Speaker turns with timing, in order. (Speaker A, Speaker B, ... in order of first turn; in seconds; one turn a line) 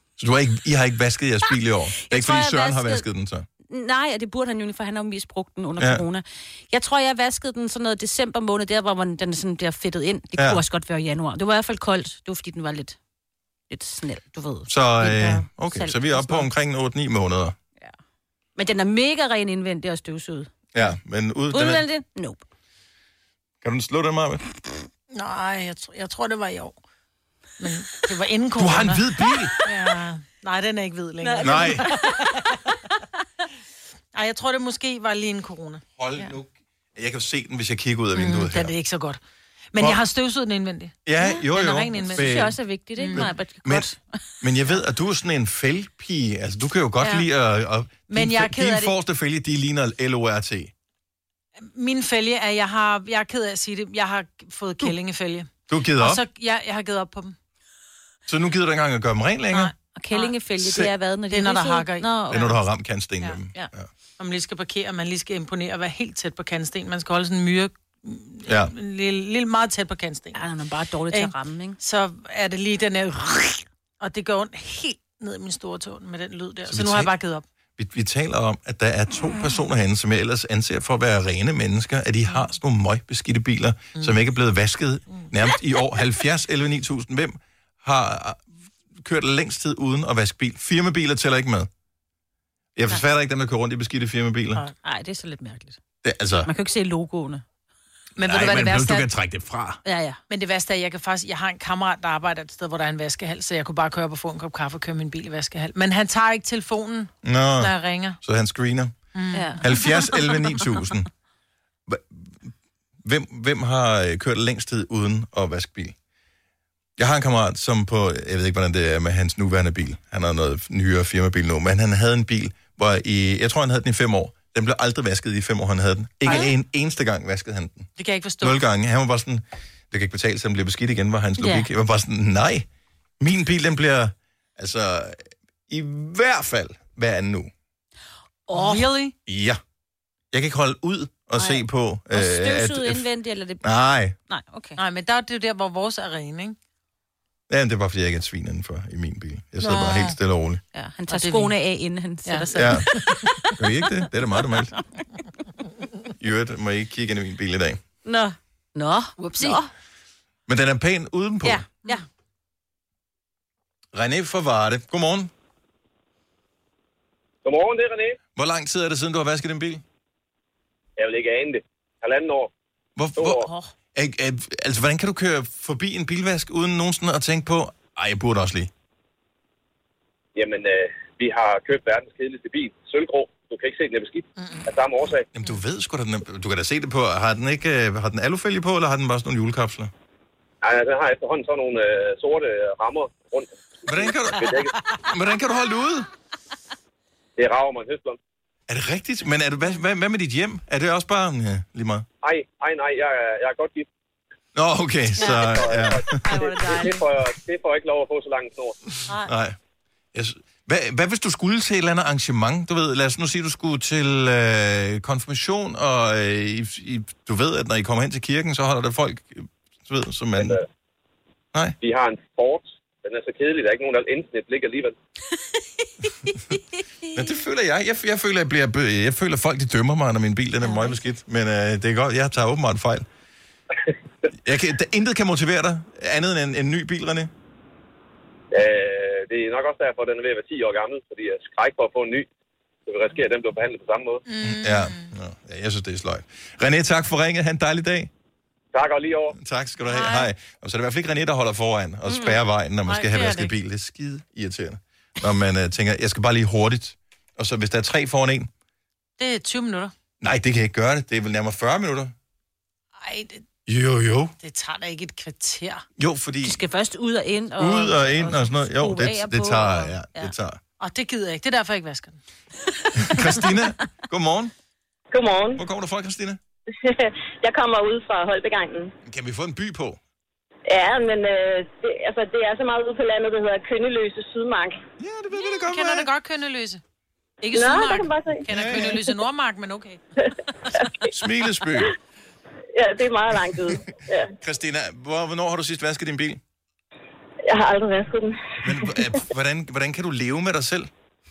Speaker A: 0.2-3.5
Speaker B: 2.0-3.0
Speaker B: 3.7-13.0
Speaker A: 5.8-6.0
Speaker A: 10.4-10.6
Speaker B: 13.7-16.4
Speaker A: 14.7-17.5
Speaker B: 18.6-20.5
Speaker A: 20.7-21.8
Speaker B: 21.5-22.4
Speaker A: 23.6-24.4
Speaker C: 25.1-26.8
Speaker C: 27.6-29.1
Speaker A: 28.6-29.6
Speaker C: 29.6-32.6
Speaker B: 31.2-32.6
Speaker A: 31.4-31.9
Speaker C: 34.1-35.8
Speaker A: 36.0-38.7
Speaker C: 38.1-39.2
Speaker C: 39.7-42.4
Speaker A: 41.0-42.6
Speaker B: 41.2-44.1
Speaker C: 43.0-43.3
Speaker A: 43.1-43.9
Speaker A: 44.4-50.7
Speaker C: 48.1-48.9
Speaker C: 51.6-57.3
Speaker A: 55.7-56.2
Speaker A: 58.3-59.7
Speaker C: 59.5-60.4
Speaker B: 59.9-62.6
Speaker A: 60.6-60.9
Speaker C: 61.3-62.4
Speaker A: 62.3-63.9
Speaker C: 64.2-70.4
Speaker A: 68.5-68.7
Speaker B: 70.3-71.8
Speaker C: 71.1-77.4
Speaker A: 76.7-77.1
Speaker A: 77.8-88.4
Speaker A: 89.0-91.7
Speaker A: 92.8-94.6
Speaker B: 94.8-95.8
Speaker A: 96.0-96.5
Speaker B: 96.4-97.4
Speaker C: 98.2-99.1
Speaker A: 98.2-99.8
Speaker B: 99.8-100.2
Speaker C: 100.3-108.2
Speaker A: 107.2-108.9
Speaker C: 109.1-109.7
Speaker B: 109.3-110.0
Speaker A: 109.6-111.1
Speaker A: 111.9-112.5
Speaker A: 113.0-115.9
Speaker A: 117.0-127.9
Speaker C: 128.0-128.6
Speaker A: 128.4-132.7
Speaker B: 131.4-131.7
Speaker A: 133.2-137.5
Speaker B: 138.5-138.9
Speaker C: 138.5-139.1
Speaker A: 139.2-139.6
Speaker A: 140.3-143.1
Speaker B: 141.3-144.8
Speaker A: 143.6-144.1
Speaker C: 144.8-146.6
Speaker A: 147.5-150.6
Speaker C: 149.6-150.1
Speaker B: 150.7-153.5
Speaker C: 151.1-151.5
Speaker C: 152.2-153.1
Speaker A: 152.5-152.9
Speaker A: 153.6-154.7
Speaker A: 156.2-157.8
Speaker B: 158.0-159.7
Speaker C: 159.3-159.6
Speaker A: 160.5-161.6
Speaker B: 161.4-162.0
Speaker A: 163.9-165.3
Speaker D: 167.4-168.2
Speaker A: 168.3-169.8
Speaker D: 171.0-172.5
Speaker A: 173.0-178.7
Speaker D: 173.2-173.5
Speaker B: 173.3-173.7
Speaker D: 180.3-185.2
Speaker C: 184.4-184.6
Speaker A: 185.3-189.9
Speaker D: 190.6-194.7
Speaker A: 193.8-194.5
Speaker A: 195.1-196.1
Speaker D: 197.4-198.2
Speaker A: 198.7-202.0
Speaker D: 202.2-203.9
Speaker A: 204.5-206.2
Speaker B: 205.2-207.0
Speaker D: 205.4-208.8
Speaker C: 206.4-206.9
Speaker A: 209.2-209.6
Speaker A: 210.1-220.6
Speaker D: 220.4-220.6
Speaker D: 221.8-224.9
Speaker A: 227.1-233.1
Speaker B: 230.6-231.0
Speaker A: 234.4-237.3
Speaker D: 238.5-242.3
Speaker D: 242.9-244.2
Speaker C: 244.2-245.1
Speaker A: 244.4-248.1
Speaker D: 248.7-249.3
Speaker A: 249.3-258.5
Speaker C: 249.8-250.3
Speaker B: 252.1-252.3
Speaker C: 252.9-253.5
Speaker C: 259.2-259.9
Speaker A: 260.2-262.1
Speaker C: 263.0-263.4
Speaker A: 263.7-264.3
Speaker C: 264.4-265.8
Speaker A: 266.0-266.6
Speaker B: 266.4-270.3
Speaker A: 267.6-270.6
Speaker C: 270.8-272.2
Speaker A: 272.9-274.5
Speaker E: 275.1-275.6
Speaker A: 275.6-276.4
Speaker E: 276.8-278.9
Speaker A: 279.0-280.0
Speaker E: 280.7-284.8
Speaker A: 285.0-286.1
Speaker C: 285.4-286.8
Speaker C: 287.4-290.0
Speaker E: 287.5-288.4
Speaker A: 288.5-289.0
Speaker A: 291.1-291.9
Speaker E: 292.7-294.3
Speaker A: 294.4-296.4
Speaker E: 297.4-298.9
Speaker A: 298.6-300.9